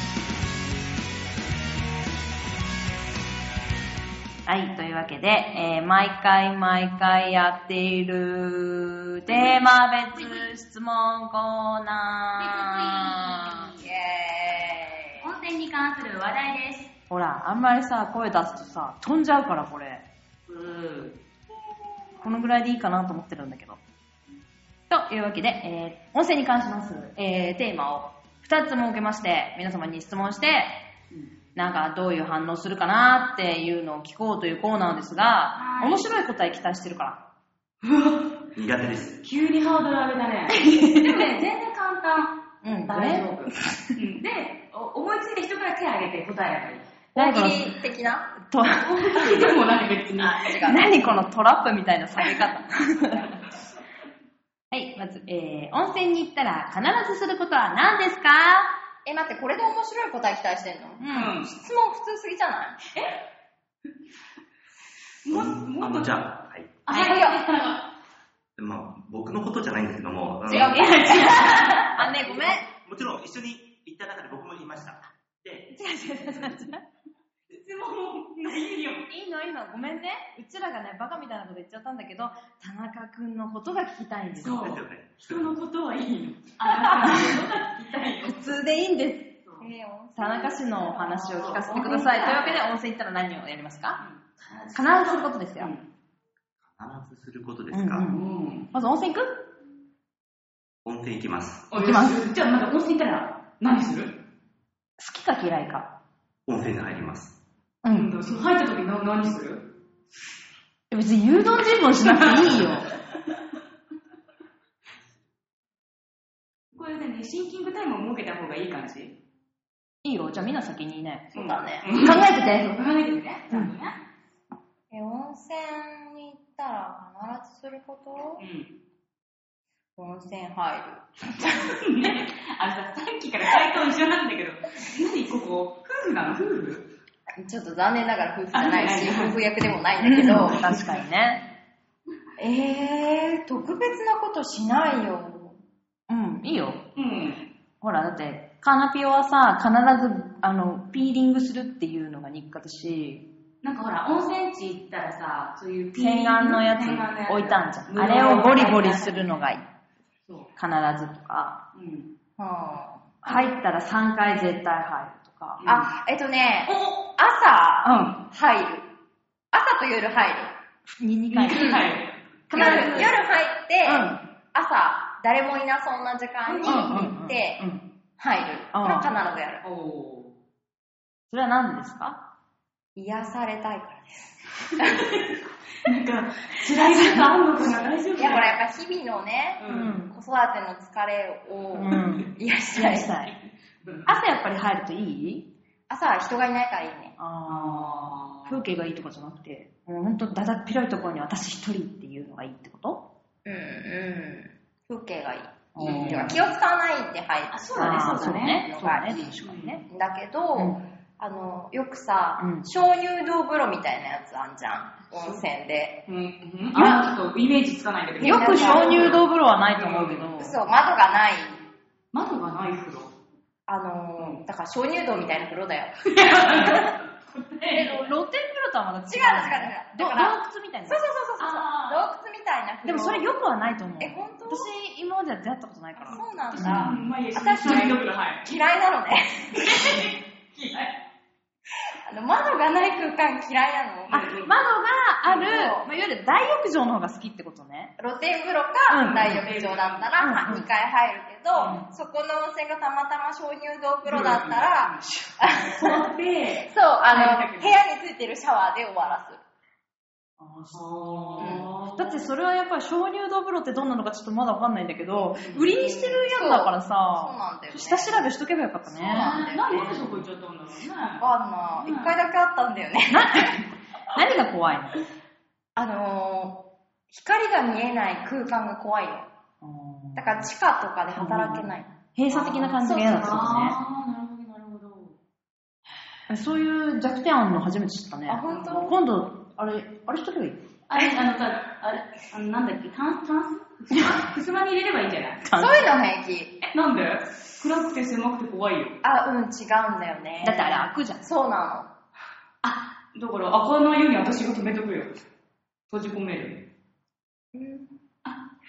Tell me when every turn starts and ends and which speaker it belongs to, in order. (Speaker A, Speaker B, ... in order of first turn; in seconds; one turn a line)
Speaker A: 4.5-13.7
Speaker B: 10.2-10.5
Speaker B: 12.4-13.9
Speaker C: 13.8-15.3
Speaker B: 15.2-16.9
Speaker A: 17.1-20.0
Speaker D: 20.5-21.1
Speaker B: 20.6-21.1
Speaker A: 22.2-23.8
Speaker A: 24.9-30.8
Speaker A: 31.6-37.2
Speaker D: 35.6-36.0
Speaker D: 37.8-38.3
Speaker E: 38.5-39.2
Speaker D: 39.2-46.9
Speaker A: 40.6-41.1
Speaker A: 42.6-43.2
Speaker C: 47.1-48.3
Speaker A: 47.2-47.7
Speaker A: 48.4-48.9
Speaker D: 48.8-50.5
Speaker C: 50.2-51.2
Speaker A: 50.7-53.3
Speaker A: 54.7-58.7
Speaker C: 59.0-62.9
Speaker A: 61.0-61.4
Speaker D: 61.1-61.5
Speaker D: 65.2-66.2
Speaker E: 65.3-66.8
Speaker D: 66.9-67.9
Speaker C: 66.9-67.4
Speaker E: 68.6-71.3
Speaker C: 70.5-71.9
Speaker D: 70.5-71.9
Speaker A: 71.0-72.7
Speaker E: 72.5-75.7
Speaker A: 75.7-76.8
Speaker D: 77.5-79.1
Speaker A: 79.1-84.6
Speaker D: 84.4-88.6
Speaker E: 84.6-85.5
Speaker A: 87.0-87.4
Speaker A: 88.2-89.3
Speaker C: 89.6-91.2
Speaker A: 90.2-94.0
Speaker D: 91.1-92.6
Speaker D: 94.0-95.8
Speaker A: 94.7-95.7
Speaker E: 96.7-98.1
Speaker A: 97.7-99.4
Speaker D: 98.1-98.7
Speaker E: 100.8-101.7
Speaker D: 101.7-104.2
Speaker A: 101.8-102.2
Speaker A: 105.0-105.9
Speaker E: 106.5-107.4
Speaker A: 107.8-108.1
Speaker D: 107.9-109.6
Speaker A: 110.9-112.9
Speaker D: 112.0-112.7
Speaker D: 116.7-119.2
Speaker A: 120.0-121.3
Speaker C: 121.3-121.9
Speaker D: 121.3-124.0
Speaker A: 121.9-122.8
Speaker C: 124.9-128.4
Speaker D: 128.4-128.7
Speaker C: 130.0-131.8
Speaker D: 131.4-136.9
Speaker C: 137.4-140.6
Speaker D: 138.5-139.4
Speaker A: 140.0-141.4
Speaker D: 140.3-140.8
Speaker C: 142.4-145.6
Speaker A: 146.1-146.8
Speaker D: 147.0-147.4
Speaker A: 147.8-153.3
Speaker D: 153.6-159.3
Speaker A: 156.0-159.7
Speaker A: 160.6-161.6
Speaker D: 161.7-162.1
Speaker C: 162.4-163.1
Speaker A: 163.2-165.7
Speaker D: 165.6-165.9
Speaker C: 165.7-168.9
Speaker D: 166.7-167.0
Speaker C: 169.5-170.6
Speaker A: 170.9-171.7
Speaker D: 171.3-173.1
Speaker C: 171.5-171.9
Speaker A: 172.5-173.1
Speaker C: 172.5-177.6
Speaker A: 173.8-174.2
Speaker D: 176.4-177.1
Speaker A: 176.7-177.8
Speaker C: 178.2-179.6
Speaker A: 178.7-179.1
Speaker D: 179.6-180.3
Speaker A: 181.3-182.2
Speaker C: 182.9-185.1
Speaker D: 184.8-185.3
Speaker D: 185.8-188.6
Speaker C: 187.7-193.1
Speaker D: 189.6-190.0
Speaker A: 189.7-190.1
Speaker A: 191.7-193.3
Speaker D: 193.8-194.1
Speaker A: 194.1-195.5
Speaker C: 195.9-197.2
Speaker A: 197.2-203.1
Speaker D: 197.5-198.6
Speaker C: 203.4-209.3
Speaker A: 205.8-206.4
Speaker D: 205.8-206.4
Speaker D: 207.5-209.8
Speaker A: 207.8-209.8
Speaker C: 209.8-216.0
Speaker A: 210.6-210.8
Speaker A: 212.4-212.7
Speaker D: 215.1-215.4
Speaker D: 216.1-220.5
Speaker A: 216.8-217.1
Speaker C: 218.2-219.2
Speaker A: 218.2-220.6
Speaker C: 220.4-221.6
Speaker D: 222.1-223.1
Speaker C: 223.7-226.8
Speaker D: 224.2-224.4
Speaker D: 226.1-228.1
Speaker A: 227.7-231.0
Speaker C: 229.1-233.3
Speaker D: 231.4-232.1
Speaker A: 232.8-237.0
Speaker C: 234.0-234.7
Speaker D: 236.1-238.5
Speaker C: 236.1-240.1
Speaker A: 237.6-237.9
Speaker D: 239.5-241.0
Speaker C: 242.1-244.3
Speaker D: 244.1-244.5
Speaker A: 244.1-247.9
Speaker C: 245.3-245.8
Speaker C: 248.0-256.0
Speaker A: 248.9-249.4
Speaker D: 249.0-250.1
Speaker A: 250.2-250.7
Speaker D: 251.5-251.8
Speaker D: 254.1-255.1
Speaker A: 255.1-255.4
Speaker D: 255.7-257.8
Speaker C: 256.6-259.4
Speaker A: 260.4-270.2
Speaker D: 260.7-262.2
Speaker C: 261.4-261.7
Speaker D: 265.4-265.7
Speaker C: 265.7-268.3
Speaker C: 268.9-269.9
Speaker D: 269.1-272.2
Speaker C: 271.2-273.6
Speaker A: 273.1-275.0
Speaker C: 275.8-279.3
Speaker A: 279.6-280.5
Speaker C: 280.2-281.9
Speaker A: 281.1-283.8
Speaker D: 282.3-285.2
Speaker C: 282.8-283.6
Speaker A: 286.3-290.6
Speaker C: 288.3-289.0
Speaker D: 288.5-288.8
Speaker D: 290.9-295.5
Speaker A: 295.4-295.8
Speaker C: 295.6-296.6
Speaker D: 296.6-299.0
Speaker C: 299.0-301.9
Speaker A: 300.4-301.3
Speaker D: 302.6-305.1
Speaker D: 305.9-306.6
Speaker C: 307.5-308.0